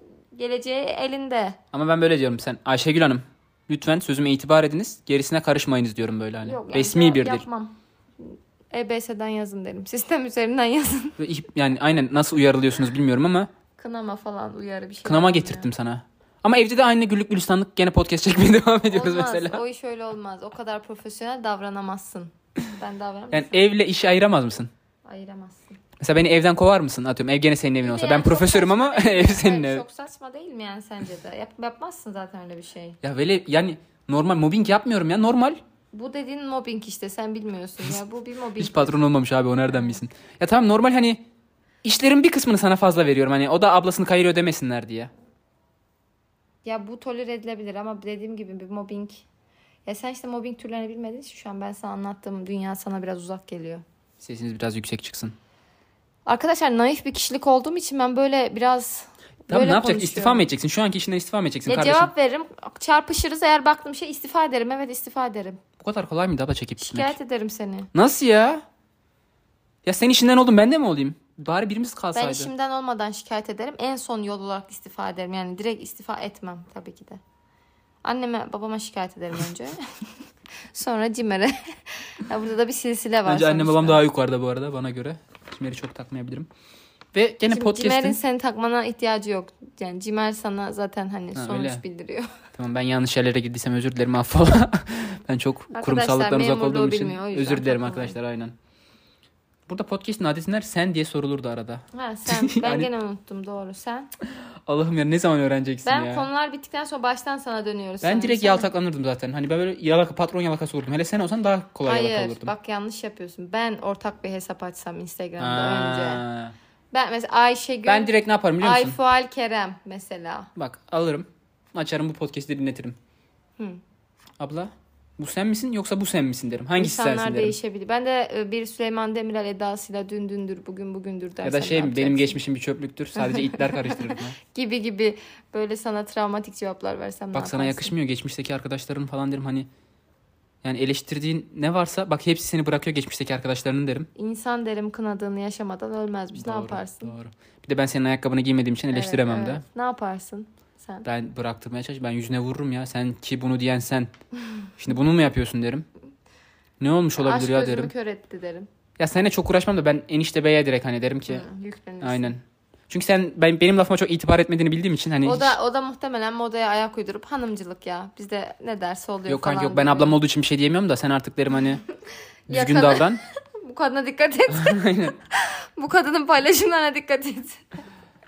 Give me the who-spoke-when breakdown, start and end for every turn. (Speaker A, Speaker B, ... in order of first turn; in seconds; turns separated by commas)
Speaker A: 0.3-1.6, Speaker B: 1.7-7.5, Speaker A: 6.4-11.2, Speaker B: 11.2-13.5, Speaker A: 13.8-15.7, Speaker B: 15.0-19.6, Speaker A: 18.8-23.7, Speaker B: 23.3-24.7, Speaker A: 25.0-25.8, Speaker B: 26.0-29.8, Speaker A: 27.8-33.0, Speaker B: 33.0-35.6, Speaker A: 35.9-39.0, Speaker B: 38.6-41.2, Speaker A: 39.7-40.0, Speaker B: 41.8-45.1, Speaker A: 46.6-49.2, Speaker A: 49.9-53.8, Speaker B: 54.2-55.4, Speaker A: 56.2-60.5, Speaker B: 59.5-62.1, Speaker A: 61.7-65.6, Speaker B: 65.8-67.1, Speaker A: 66.8-67.9, Speaker B: 67.9-68.6, Speaker B: 69.8-72.5, Speaker A: 72.1-77.2, Speaker A: 78.0-79.8, Speaker A: 80.7-84.0, Speaker B: 83.2-86.5, Speaker B: 87.1-88.2, Speaker A: 87.5-92.3, Speaker B: 91.3-91.8, Speaker B: 92.5-98.5, Speaker A: 95.7-98.2, Speaker B: 99.7-102.9, Speaker A: 101.9-104.1, Speaker B: 104.7-106.3, Speaker A: 105.8-108.7, Speaker B: 108.0-112.5, Speaker A: 111.8-116.2, Speaker B: 115.4-116.5, Speaker A: 116.9-120.5, Speaker B: 117.8-119.0, Speaker B: 120.5-123.0, Speaker B: 124.4-127.6, Speaker A: 126.8-132.4, Speaker B: 131.4-134.3, Speaker A: 133.2-137.9, Speaker B: 137.3-139.7, Speaker B: 140.6-144.1, Speaker A: 144.1-147.1, Speaker B: 146.3-149.6, Speaker A: 148.9-151.1, Speaker B: 151.0-154.1, Speaker B: 154.8-155.8, Speaker B: 156.8-157.9, Speaker A: 157.2-158.7, Speaker B: 159.0-161.5, Speaker A: 161.3-162.3, Speaker B: 162.0-165.6, Speaker A: 165.2-170.2, Speaker B: 169.3-171.8, Speaker B: 172.5-173.2, Speaker A: 172.5-177.6, Speaker B: 174.5-175.1